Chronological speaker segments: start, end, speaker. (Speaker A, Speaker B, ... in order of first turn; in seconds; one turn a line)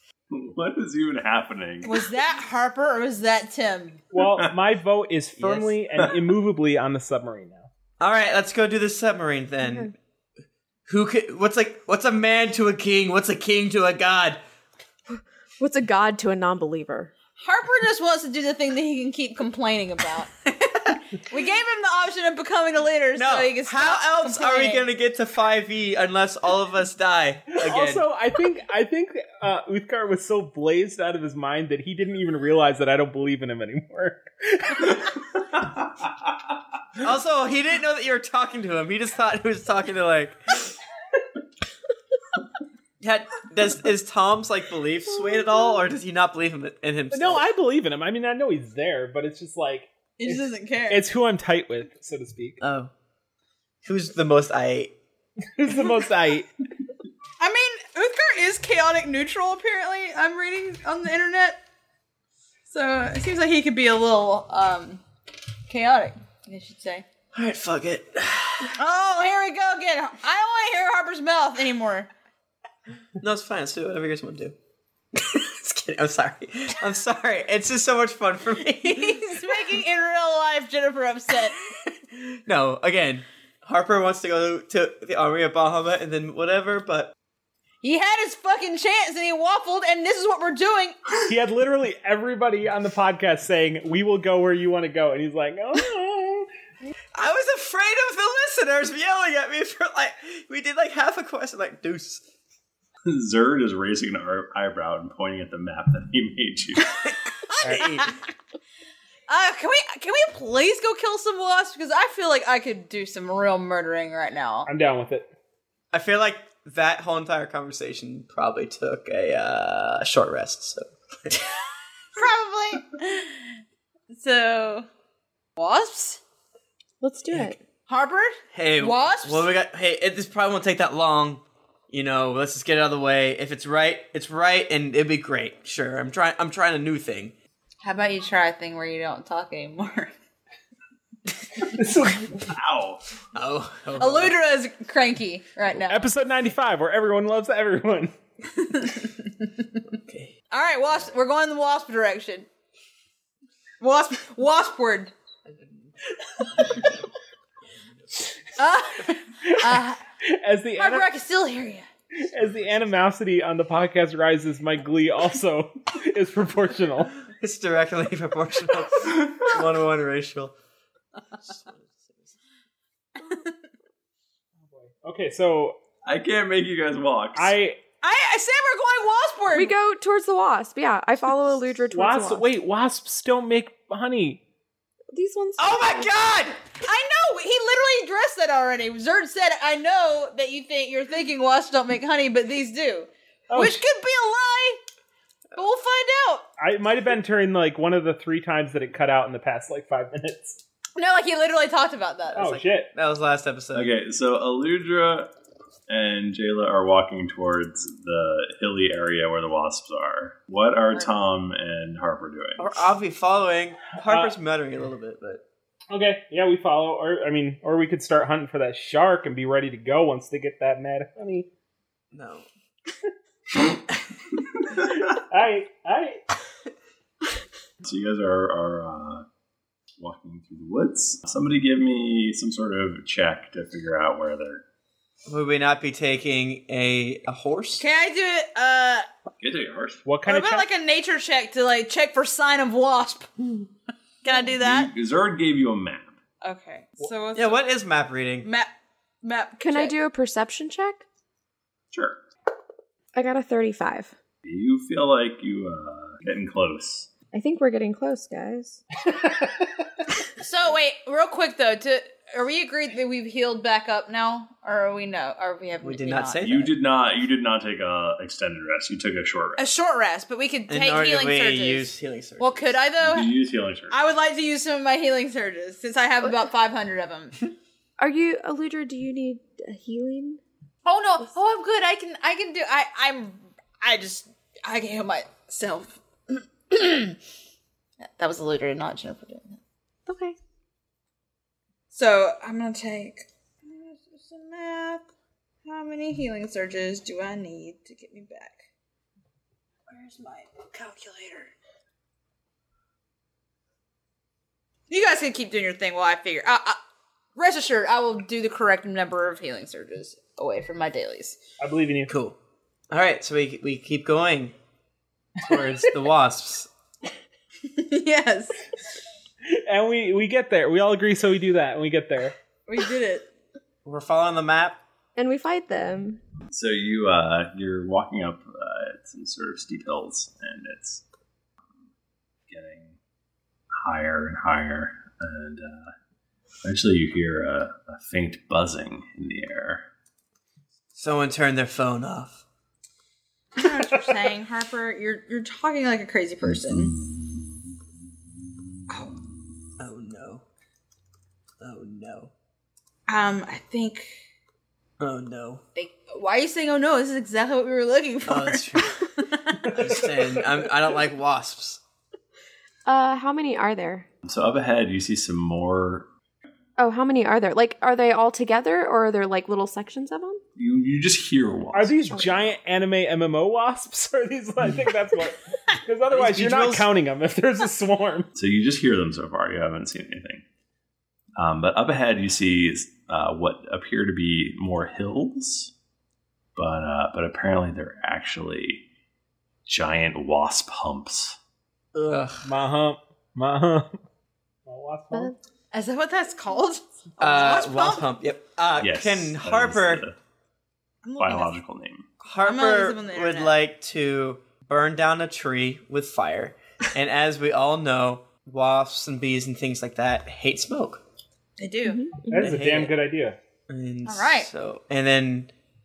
Speaker A: 0.3-1.9
Speaker B: 1.8-4.0
Speaker C: 4.1-7.7
Speaker A: 4.2-4.5
Speaker D: 5.4-5.7
Speaker D: 8.0-9.9
Speaker E: 9.6-9.9
Speaker D: 10.9-14.4
Speaker E: 15.6-17.1
Speaker B: 17.4-20.3
Speaker B: 21.2-24.9
Speaker D: 23.1-28.1
Speaker C: 27.5-35.0
Speaker D: 37.0-40.8
Speaker D: 43.0-47.4
Speaker E: 45.2-45.7
Speaker C: 47.1-52.6
Speaker B: 50.2-51.0
Speaker D: 52.6-52.9
Speaker D: 53.8-54.9
Speaker C: 55.6-56.5
Speaker B: 57.4-61.6
Speaker B: 62.7-65.0
Speaker B: 65.7-67.0
Speaker D: 67.3-68.8
Speaker B: 68.8-72.1
Speaker D: 73.2-74.5
Speaker D: 75.1-79.7
Speaker B: 78.9-81.6
Speaker D: 82.1-87.1
Speaker B: 87.8-91.0
Speaker C: 91.3-96.5
Speaker D: 97.1-102.2
Speaker A: 103.0-106.9
Speaker B: 107.5-108.1
Speaker C: 107.6-108.1
Speaker B: 109.3-114.7
Speaker C: 114.6-115.3
Speaker D: 115.9-121.5
Speaker B: 122.1-123.5
Speaker B: 124.1-124.9
Speaker B: 125.6-126.2
Speaker E: 127.0-127.6
Speaker B: 127.9-129.5
Speaker D: 128.5-137.3
Speaker B: 137.8-140.1
Speaker C: 141.7-142.4
Speaker A: 142.5-143.0
Speaker D: 143.3-144.3
Speaker B: 144.0-146.0
Speaker C: 145.9-148.1
Speaker B: 148.6-149.5
Speaker D: 150.0-150.3
Speaker B: 150.5-152.5
Speaker B: 153.8-155.1
Speaker D: 155.5-155.9
Speaker B: 158.6-160.0
Speaker C: 159.4-161.1
Speaker B: 160.8-161.8
Speaker C: 162.2-167.1
Speaker D: 167.3-170.5
Speaker D: 171.4-172.3
Speaker C: 174.7-175.8
Speaker A: 176.0-177.5
Speaker C: 177.3-177.8
Speaker B: 178.0-179.7
Speaker E: 179.5-182.5
Speaker C: 181.9-184.4
Speaker E: 185.1-186.1
Speaker D: 185.6-186.7
Speaker B: 186.7-194.8
Speaker C: 193.5-193.8
Speaker B: 195.6-196.4
Speaker C: 196.6-200.6
Speaker B: 200.9-202.4
Speaker C: 202.3-202.9
Speaker D: 202.3-203.9
Speaker A: 203.7-205.3
Speaker A: 205.9-212.7
Speaker D: 212.6-215.4
Speaker C: 214.0-214.3
Speaker C: 215.9-221.5
Speaker D: 222.1-222.5
Speaker C: 225.1-226.2
Speaker A: 227.8-229.2
Speaker A: 230.0-234.6
Speaker D: 235.3-237.8
Speaker B: 237.8-239.1
Speaker A: 239.4-240.1
Speaker C: 240.1-240.7
Speaker B: 240.2-243.7
Speaker B: 244.2-244.9
Speaker A: 244.6-246.2
Speaker B: 246.4-247.7
Speaker D: 247.3-248.5
Speaker B: 248.4-248.7
Speaker B: 249.2-249.9
Speaker E: 249.6-251.0
Speaker E: 253.1-254.1
Speaker A: 254.4-257.1
Speaker E: 257.3-258.8
Speaker B: 260.4-266.5
Speaker D: 265.8-266.7
Speaker A: 266.4-269.6
Speaker B: 269.6-273.3
Speaker D: 270.7-272.8
Speaker A: 273.0-274.0
Speaker B: 273.9-277.4
Speaker E: 278.0-280.4
Speaker B: 280.8-287.2
Speaker B: 288.1-289.6
Speaker E: 290.1-290.4
Speaker B: 291.9-295.0
Speaker B: 295.6-298.6
Speaker B: 299.9-301.5
Speaker B: 304.9-306.8
Speaker B: 307.4-311.4
Speaker C: 311.6-312.1
Speaker D: 312.1-312.4
Speaker D: 312.9-314.5
Speaker D: 315.4-316.7
Speaker B: 317.6-318.6
Speaker C: 319.5-322.3
Speaker B: 322.7-323.2
Speaker D: 323.8-324.8
Speaker E: 325.1-326.2
Speaker A: 326.5-331.0
Speaker A: 332.5-333.0
Speaker A: 333.8-335.9
Speaker A: 336.6-339.8
Speaker D: 340.9-342.4
Speaker B: 343.5-346.9
Speaker A: 346.5-347.0
Speaker D: 349.8-350.4
Speaker D: 351.6-352.3
Speaker B: 353.1-354.1
Speaker D: 355.0-355.6
Speaker B: 355.8-359.7
Speaker D: 358.2-359.1
Speaker D: 359.7-361.8
Speaker E: 362.9-364.1
Speaker A: 364.2-366.1
Speaker E: 366.8-370.4
Speaker A: 370.6-372.0
Speaker C: 371.7-378.3
Speaker D: 376.1-376.9
Speaker A: 378.4-380.4
Speaker A: 381.4-385.7
Speaker A: 386.6-388.8
Speaker A: 389.6-391.4
Speaker D: 391.9-392.4
Speaker C: 392.4-394.0
Speaker C: 394.6-395.3
Speaker B: 395.7-398.1
Speaker D: 397.2-400.0
Speaker A: 398.8-400.1
Speaker B: 401.0-401.5
Speaker A: 401.2-402.1
Speaker D: 402.2-411.0
Speaker B: 402.4-403.6
Speaker B: 411.6-412.1
Speaker E: 411.8-412.5
Speaker C: 412.3-413.4
Speaker D: 412.4-412.9
Speaker D: 413.7-415.5
Speaker B: 414.0-414.5